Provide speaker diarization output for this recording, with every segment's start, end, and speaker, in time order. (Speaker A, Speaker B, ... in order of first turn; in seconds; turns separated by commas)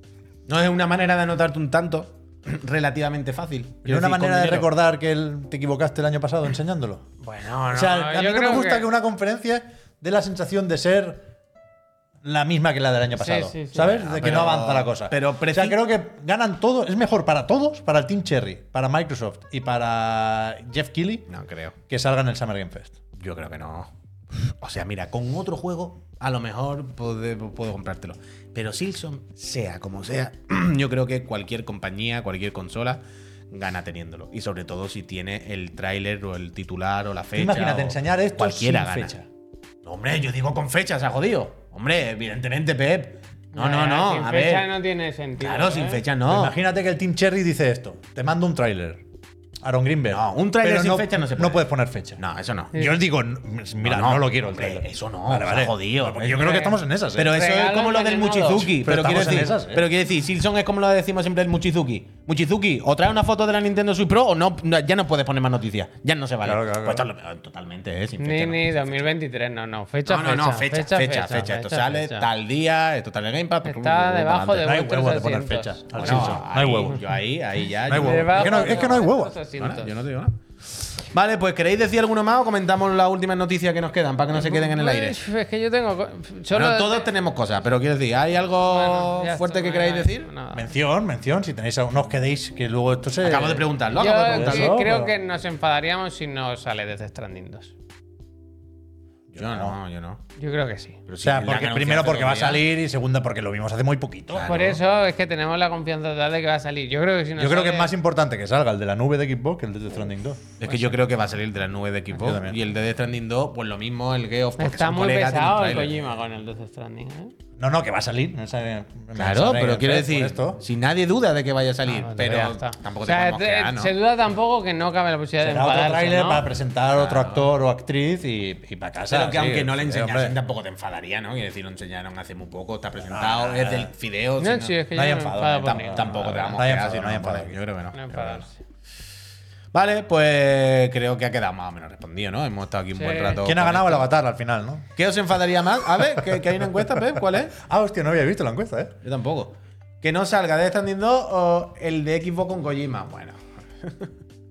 Speaker A: 0.5-4.7, Speaker B: 3.8-7.0, Speaker C: 7.2-8.9, Speaker B: 7.7-11.3, Speaker B: 12.2-21.2, Speaker C: 13.2-14.5, Speaker A: 14.1-15.8, Speaker A: 21.3-21.7, Speaker B: 21.9-22.9, Speaker A: 23.2-39.1, Speaker B: 37.4-39.2, Speaker A: 39.8-44.7, Speaker C: 43.5-46.0, Speaker A: 45.4-46.5, Speaker B: 46.3-49.0, Speaker B: 49.6-52.2, Speaker A: 50.1-51.6, Speaker A: 52.2-52.8, Speaker B: 52.7-57.4, Speaker A: 53.8-69.0, Speaker C: 57.2-58.7, Speaker B: 58.6-59.9, Speaker B: 66.4-67.1, Speaker C: 68.2-72.2, Speaker A: 70.0-74.7, Speaker C: 73.6-77.0, Speaker B: 74.6-77.0, Speaker A: 76.0-78.9, Speaker B: 77.9-79.3, Speaker C: 77.9-80.0, Speaker A: 79.6-85.2, Speaker C: 84.3-87.1, Speaker A: 86.5-90.3, Speaker C: 88.6-90.7, Speaker B: 90.5-95.1, Speaker A: 93.2-94.8, Speaker C: 93.9-97.7, Speaker B: 99.3-99.7, Speaker A: 99.3-100.2, Speaker C: 100.3-101.0, Speaker A: 101.1-102.6, Speaker B: 101.2-104.5, Speaker A: 104.3-104.8, Speaker C: 104.5-107.9, Speaker B: 107.4-110.4, Speaker A: 110.6-116.1, Speaker B: 112.1-112.6, Speaker C: 114.6-117.3, Speaker B: 117.6-120.6, Speaker A: 119.2-123.9, Speaker C: 121.9-126.4, Speaker B: 125.4-130.4, Speaker A: 126.9-127.5, Speaker A: 129.1-134.8, Speaker B: 133.1-133.9, Speaker C: 134.4-136.3, Speaker B: 134.9-137.6, Speaker A: 135.9-138.4, Speaker C: 137.9-138.6, Speaker A: 139.7-144.1, Speaker C: 142.9-143.4, Speaker B: 143.4-144.8, Speaker A: 144.9-147.6, Speaker B: 147.5-148.9, Speaker A: 149.0-154.1